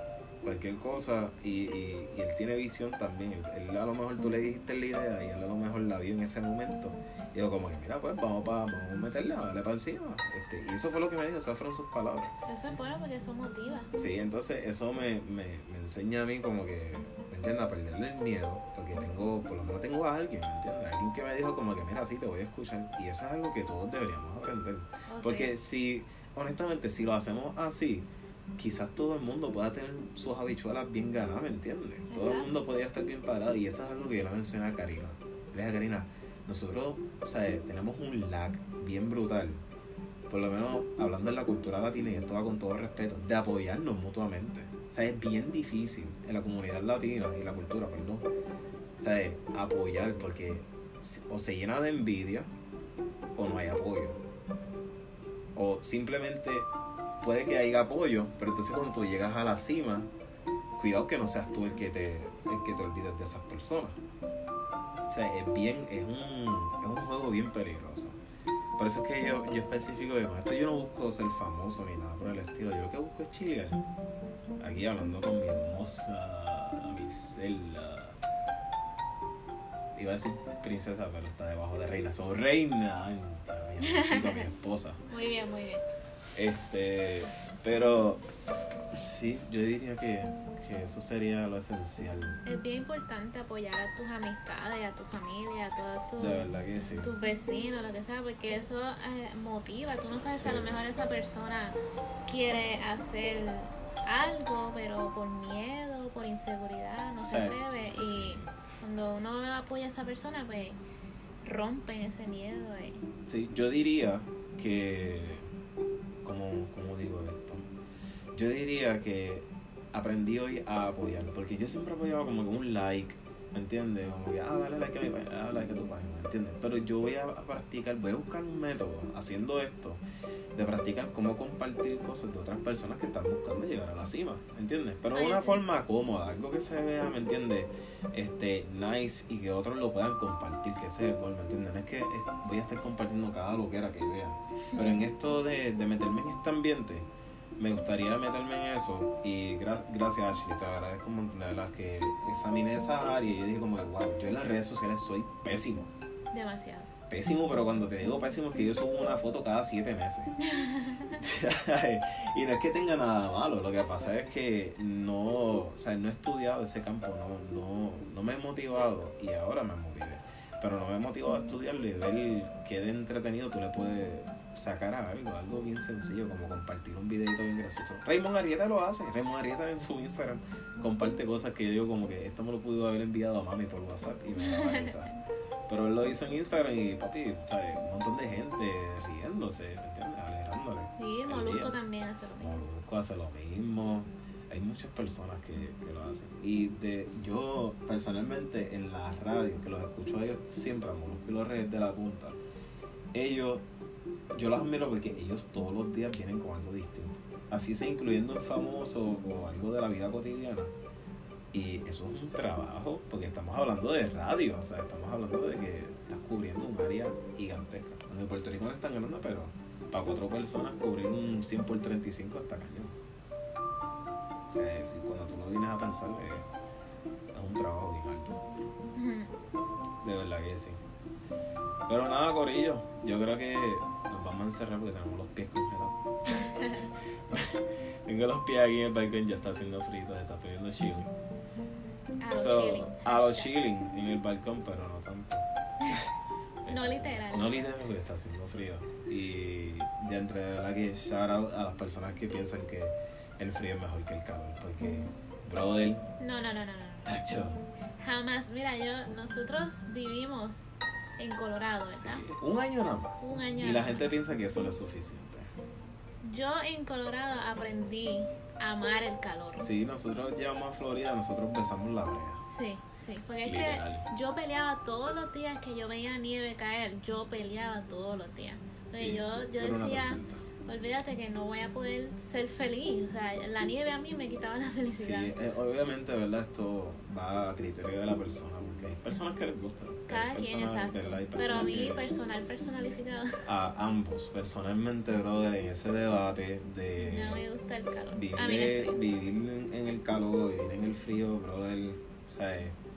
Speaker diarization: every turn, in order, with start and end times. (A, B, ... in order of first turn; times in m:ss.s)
0:00.4-0:12.3 A
0:12.5-0:13.9 B
0:14.0-0:39.6 A
0:25.1-0:25.5 B
0:32.1-0:32.5 B
0:40.3-0:48.2 A
0:49.0-0:52.5 A
0:53.4-0:54.2 A
0:55.5-0:56.7 A
0:57.2-1:00.1 A
1:00.8-1:04.0 A
1:05.1-1:08.2 A
1:08.8-1:13.8 A
1:14.6-1:18.2 A
1:19.9-1:25.0 A
1:23.8-1:24.5 B
1:25.1-1:25.8 B
1:26.4-1:28.2 A
1:29.0-1:32.4 A
1:32.4-1:36.4 B
1:36.2-1:37.1 A
1:37.0-1:50.8 B
1:40.3-1:40.7 A
1:47.2-1:48.5 A
1:51.4-1:53.0 B
1:53.3-1:55.4 A
1:56.2-1:57.6 A
1:58.3-2:10.0 A
2:10.5-2:27.1 A
2:15.1-2:15.6 B
2:24.7-2:25.0 B
2:27.6-2:35.9 A
2:36.3-2:36.9 B
2:37.1-2:40.4 A
2:40.4-2:41.2 B
2:41.1-3:05.1 A
3:04.4-3:05.2 B
3:05.7-3:11.8 A
3:11.0-3:12.6 B
3:12.4-3:22.4 A
3:23.1-3:23.6 A
3:24.3-3:30.7 A
3:31.5-3:42.9 A
3:44.5-3:46.5 A
3:47.3-3:48.4 A
3:49.0-3:49.3 B
3:50.0-3:50.8 A
3:51.9-4:01.1 A
4:02.2-4:03.5 B
4:02.3-4:06.0 A
4:06.6-4:16.0 A
4:06.7-4:07.7 B
4:16.2-4:17.2 B
4:17.0-4:17.6 A
4:18.0-4:20.6 B
4:21.2-4:22.2 B
4:21.9-4:25.5 A
4:23.2-4:24.1 B
4:26.2-4:29.6 B
4:29.6-4:32.4 A
4:32.5-4:45.3 B
4:33.4-4:34.0 A
4:38.8-4:40.4 A
4:44.9-4:52.1 A
4:50.1-4:53.4 B
4:53.4-5:02.8 A
4:57.0-4:59.0 B